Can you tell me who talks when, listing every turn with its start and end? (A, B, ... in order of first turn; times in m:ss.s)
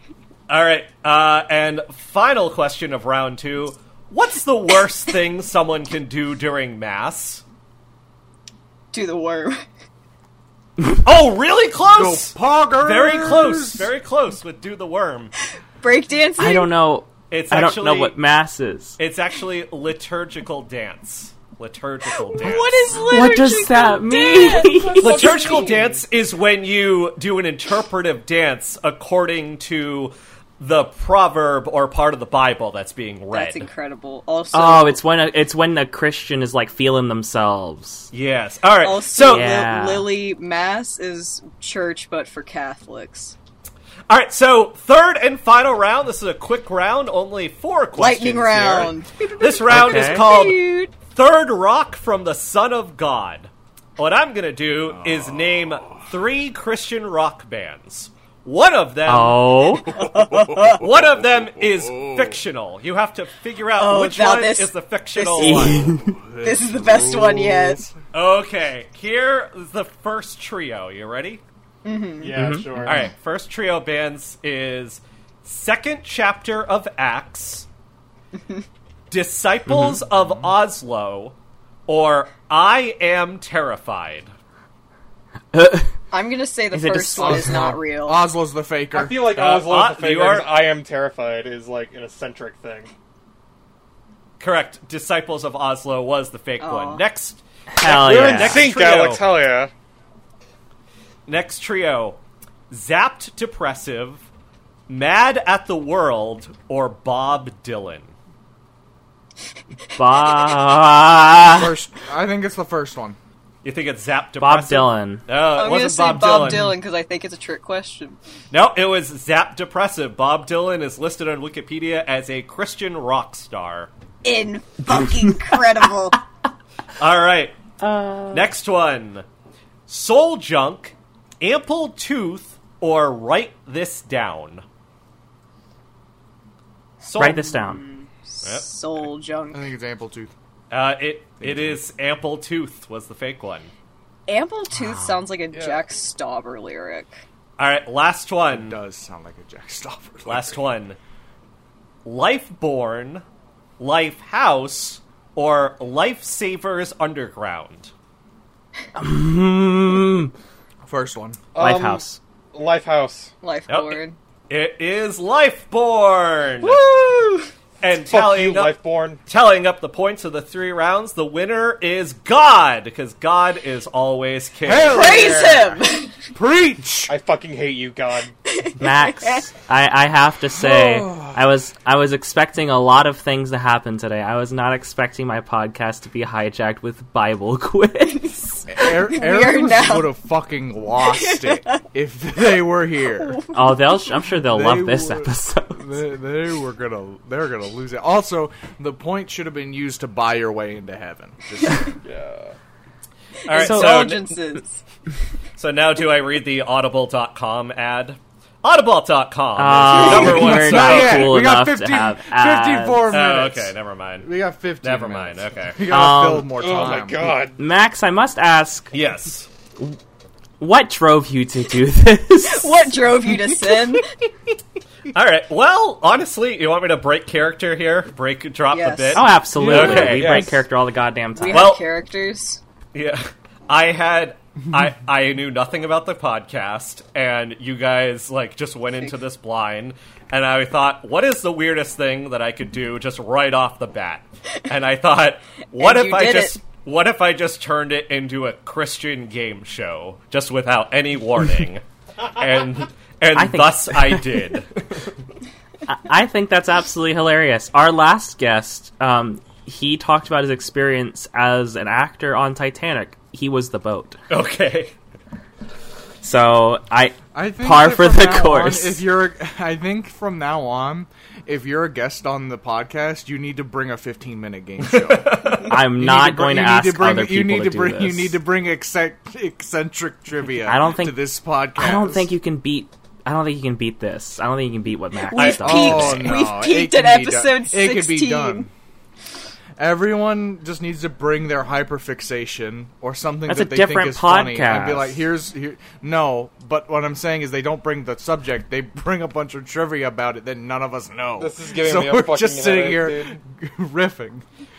0:00.5-0:07.4 A
0:08.9-0:09.6 B
0:11.0-0:15.3 A
0:11.8-0:13.9 C
0:15.8-0:16.7 B
0:16.4-0:19.0 D
0:17.3-0:18.2 A
0:19.0-0:23.1 A
0:22.2-0:25.6 B
0:23.0-0:25.3 D
0:24.2-0:26.0 E
0:25.0-0:33.7 A
0:33.3-0:35.0 B
0:34.5-0:38.1 D
0:38.1-0:39.6 A
0:38.8-0:43.3 B
0:39.3-0:40.1 D
0:44.1-0:59.5 A
0:48.0-0:50.9 B
0:49.7-0:50.2 D
0:54.9-0:56.1 C
0:59.0-1:00.0 D
0:59.9-1:00.8 B
1:00.2-1:02.4 C
1:00.6-1:05.8 A
1:03.8-1:07.8 B
1:05.4-1:06.2 D
1:05.8-1:07.9 C
1:08.1-1:11.4 A
1:11.8-1:12.4 B
1:12.2-1:13.0 E
1:12.3-1:12.9 D
1:12.8-1:17.7 A
1:19.1-1:21.4 A
1:19.7-1:20.0 D
1:21.9-1:24.3 A
1:25.5-1:25.9 D
1:26.1-1:28.2 B
1:26.7-1:27.8 D
1:27.2-1:29.3 C
1:28.9-1:32.9 E
1:29.3-1:30.6 A
1:34.4-1:39.2 A
1:36.6-1:37.0 B
1:37.7-1:38.7 D
1:37.9-1:39.7 E
1:41.3-1:42.2 A
1:42.7-1:44.2 A
1:44.9-1:48.1 A
1:50.0-1:51.7 D
1:51.5-1:53.2 C
1:53.6-1:56.7 A
1:54.4-1:55.2 D
1:55.5-1:58.2 B
1:58.5-2:03.9 A
2:04.2-2:06.2 B
2:07.0-2:07.6 A
2:07.8-2:08.5 D
2:08.3-2:09.2 A
2:09.9-2:14.6 A
2:17.0-2:17.4 A
2:17.2-2:17.8 D
2:17.2-2:19.6 B
2:18.4-2:19.1 A
2:19.5-2:20.3 C
2:20.7-2:23.7 A
2:21.4-2:21.8 C
2:24.3-2:27.2 B
2:24.8-2:25.2 D
2:25.5-2:25.8 E
2:27.6-2:28.8 A
2:28.5-2:30.6 C
2:30.2-2:31.0 A
2:32.0-2:33.2 A
2:33.8-2:37.9 A
2:38.9-2:40.3 D
2:40.8-2:41.4 C
2:41.5-2:43.3 E
2:41.6-2:42.2 D
2:43.4-2:44.2 B
2:43.7-2:46.8 A
2:46.6-2:47.5 B
2:47.8-2:48.7 A
2:48.0-2:49.2 E
2:49.3-2:55.4 A
2:54.6-2:55.8 C
2:54.9-2:56.2 B
2:56.3-2:57.1 C
2:57.1-2:58.3 E
2:58.4-2:59.4 B
2:58.8-3:08.5 D
3:00.5-3:01.4 C
3:08.2-3:10.1 B
3:08.7-3:13.4 C
3:11.0-3:11.8 B
3:13.2-3:13.8 B
3:13.5-3:15.8 D
3:14.4-3:22.0 C
3:22.0-3:22.5 E
3:23.4-3:24.3 A
3:23.5-3:24.8 B
3:23.5-3:24.2 D
3:25.6-3:31.4 A
3:29.6-3:33.1 D
3:30.1-3:30.3 B
3:30.1-3:37.4 C
3:33.1-3:35.8 A
3:35.9-3:36.7 D
3:36.6-3:37.6 E
3:37.6-3:38.9 D
3:38.9-3:39.5 A
3:40.6-3:43.0 D
3:42.4-3:44.1 B
3:45.1-3:50.6 A
3:48.7-3:49.4 B
3:49.1-3:51.7 D
3:49.5-3:50.3 C
3:50.0-3:50.6 E
3:51.4-3:52.6 B
3:51.5-3:51.8 A
3:52.9-4:15.1 A
4:05.8-4:06.6 B
4:13.3-4:14.2 D
4:15.9-4:24.2 D
4:24.3-4:24.9 A
4:26.2-4:29.0 D
4:27.3-4:42.3 C
4:34.8-4:35.7 A
4:35.7-4:38.4 D
4:40.6-4:46.4 D
4:45.2-4:48.7 B
4:45.3-4:46.3 A
4:45.6-4:48.7 C
4:49.8-5:04.4 C
4:53.5-4:55.2 D
5:01.4-5:03.4 E